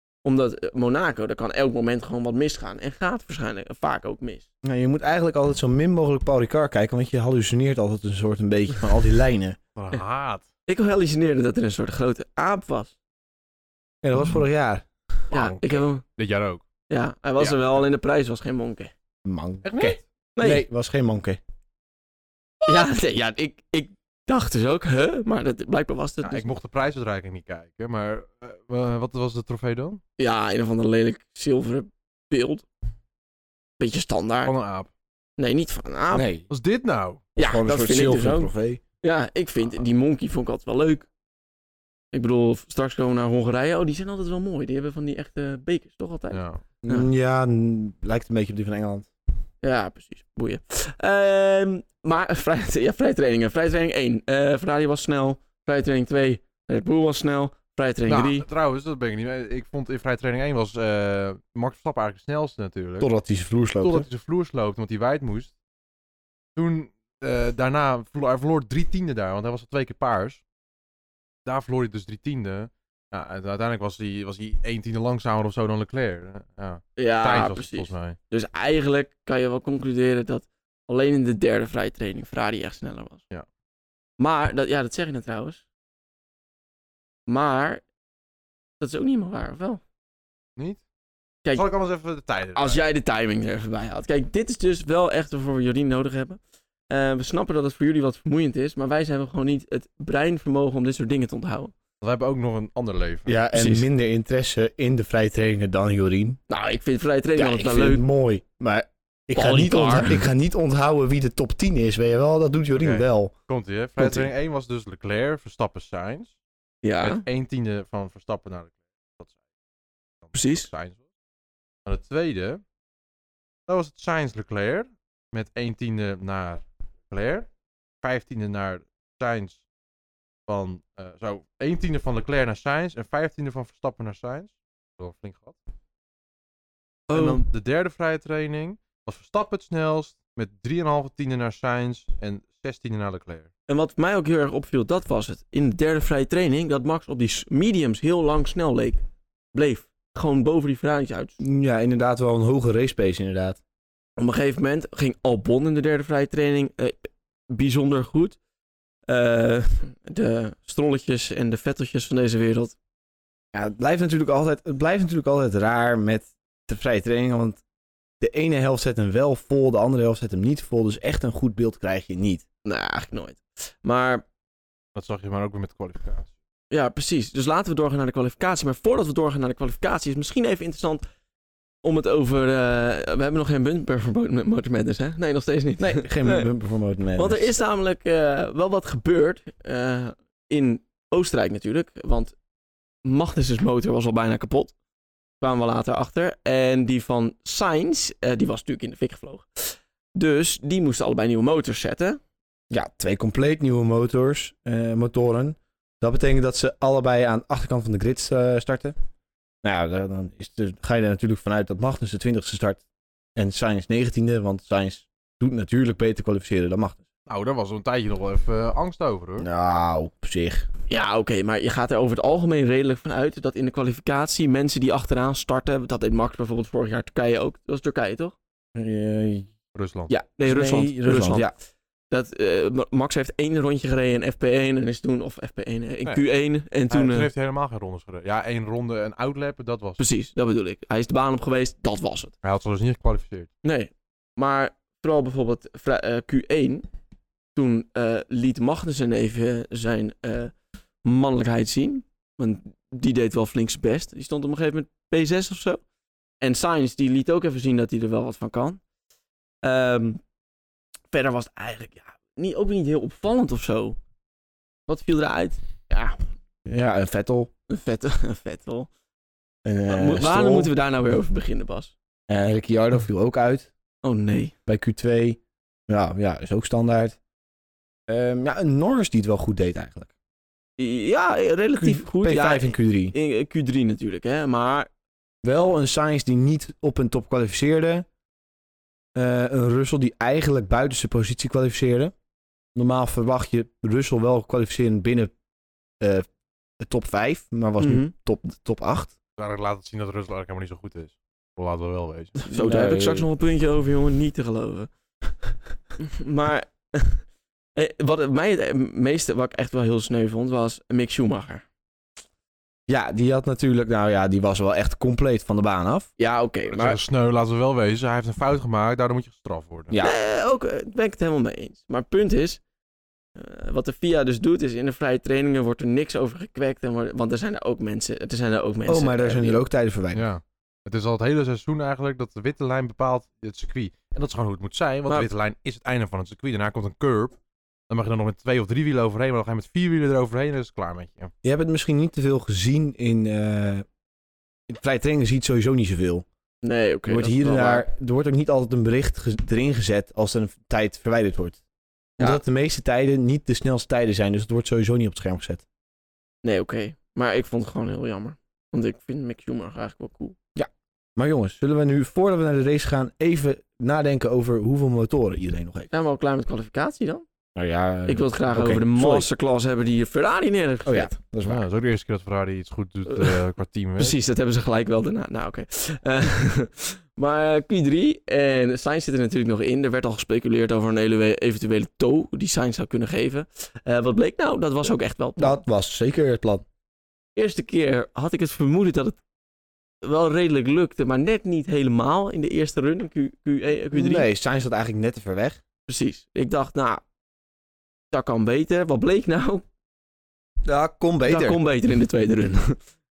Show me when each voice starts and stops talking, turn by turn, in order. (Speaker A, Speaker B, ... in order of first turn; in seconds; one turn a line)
Speaker A: 0.2-4.5
Speaker B: 4.6-9.6
Speaker C: 9.8-10.4
Speaker A: 10.7-12.9
Speaker B: 14.0-14.9
Speaker A: 15.3-16.0
Speaker C: 15.3-16.6
Speaker A: 16.9-18.9
Speaker C: 17.4-17.7
Speaker B: 19.2-21.4
Speaker C: 19.6-20.0
Speaker A: 20.4-20.6
Speaker A: 22.6-26.5
Speaker C: 26.2-30.0
Speaker A: 30.2-32.6
Speaker A: 33.8-34.5
Speaker C: 34.4-34.9
Speaker A: 35.4-36.3
Speaker B: 36.1-36.5
Speaker C: 36.5-37.2
Speaker B: 37.4-38.8
Speaker A: 37.4-41.1
Speaker A: 42.1-47.1
Speaker C: 46.3-46.6
Speaker B: 46.8-49.1
Speaker A: 49.6-58.4
Speaker C: 58.1-63.1
Speaker B: 63.0-64.0
Speaker C: 63.8-65.5
Speaker C: 66.5-70.4
Speaker C: 71.4-78.2
Speaker A: 77.0-83.2
Speaker A: 84.2-85.6
Speaker A: 87.3-87.8
Speaker A: 88.8-89.8
Speaker C: 91.5-92.8
Speaker A: 92.5-101.7
Speaker C: 102.0-103.3
Speaker B: 103.2-106.4
Speaker A: 103.5-103.8
Speaker A: 106.5-108.0
Speaker B: 107.4-113.3
Speaker A: 109.3-110.2
Speaker C: 112.8-116.3
Speaker B: 114.0-114.3
Speaker A: 116.8-117.2
Speaker C: 117.0-119.3
Speaker C: 120.2-121.0
Speaker A: 120.3-120.7
Speaker C: 121.8-122.6
Speaker C: 123.7-127.5
Speaker C: 128.0-129.6
Speaker C: 130.5-135.6
Speaker A: 137.1-137.4
Speaker C: 137.1-143.5
Speaker A: 143.7-149.0
Speaker A: 149.5-151.4
Speaker B: 151.4-153.6
Speaker A: 154.2-158.4
Speaker A: 159.1-162.8
Speaker B: 163.5-167.6
Speaker B: 168.2-172.4
Speaker A: 172.6-174.2
Speaker C: 174.9-176.3
Speaker A: 176.7-181.0
Speaker A: 181.8-186.5
Speaker B: 185.8-187.5
Speaker A: 187.2-192.3
Speaker A: 193.0-194.7
Speaker A: 195.4-202.2
Speaker B: 202.7-208.9
Speaker B: 209.6-212.8
Speaker B: 213.3-217.0
Speaker C: 217.3-219.5
Speaker B: 219.4-220.7
Speaker A: 220.9-228.3
Speaker B: 228.7-229.5
Speaker C: 229.7-230.1
Speaker A: 230.1-231.5
Speaker B: 230.4-231.5
Speaker A: 232.1-237.3
Speaker C: 236.9-240.0
Speaker A: 240.0-242.3
Speaker C: 242.4-243.5
Speaker A: 243.6-246.8
Speaker A: 247.5-250.5
Speaker A: 251.0-255.8
Speaker A: 256.4-258.8
Speaker A: 259.6-260.2
Speaker A: 261.1-264.0
Speaker A: 264.9-266.2
Speaker B: 266.6-267.5
Speaker A: 267.7-268.9
Speaker B: 269.6-270.7
Speaker A: 269.9-271.9
Speaker B: 272.3-273.7
Speaker A: 274.0-274.5
Speaker B: 274.7-277.2
Speaker B: 278.1-280.1
Speaker A: 280.8-284.9
Speaker B: 281.8-283.1
Speaker B: 285.4-288.1
Speaker B: 289.1-292.1
Speaker B: 292.7-295.3
Speaker B: 296.0-296.3
Speaker B: 296.8-299.1
Speaker A: 297.8-298.1
Speaker C: 299.4-302.4
Speaker A: 302.4-304.9
Speaker B: 302.5-303.3
Speaker A: 306.0-311.6
Speaker B: 312.9-316.1
Speaker A: 316.2-317.0
Speaker C: 316.7-320.0
Speaker B: 319.9-320.1
Speaker A: 320.0-322.6
Speaker A: 323.4-329.6
Speaker B: 328.9-330.2
Speaker C: 330.1-337.4
Speaker C: 337.9-341.3
Speaker B: 341.4-343.8
Speaker B: 344.7-346.2
Speaker A: 346.6-347.8
Speaker B: 347.1-351.6
Speaker B: 352.2-355.6
Speaker A: 356.4-360.4
Speaker B: 360.5-365.9
Speaker A: 365.9-367.2
Speaker B: 367.6-369.3
Speaker A: 368.1-371.1
Speaker B: 370.9-371.6
Speaker C: 371.4-374.1
Speaker A: 373.1-373.4
Speaker A: 374.0-385.6
Speaker B: 385.4-386.6
Speaker A: 387.4-389.2
Speaker A: 390.0-394.3
Speaker B: 393.9-395.6
Speaker A: 395.9-397.0
Speaker A: 398.1-399.6
Speaker B: 400.6-401.6
Speaker A: 401.2-402.8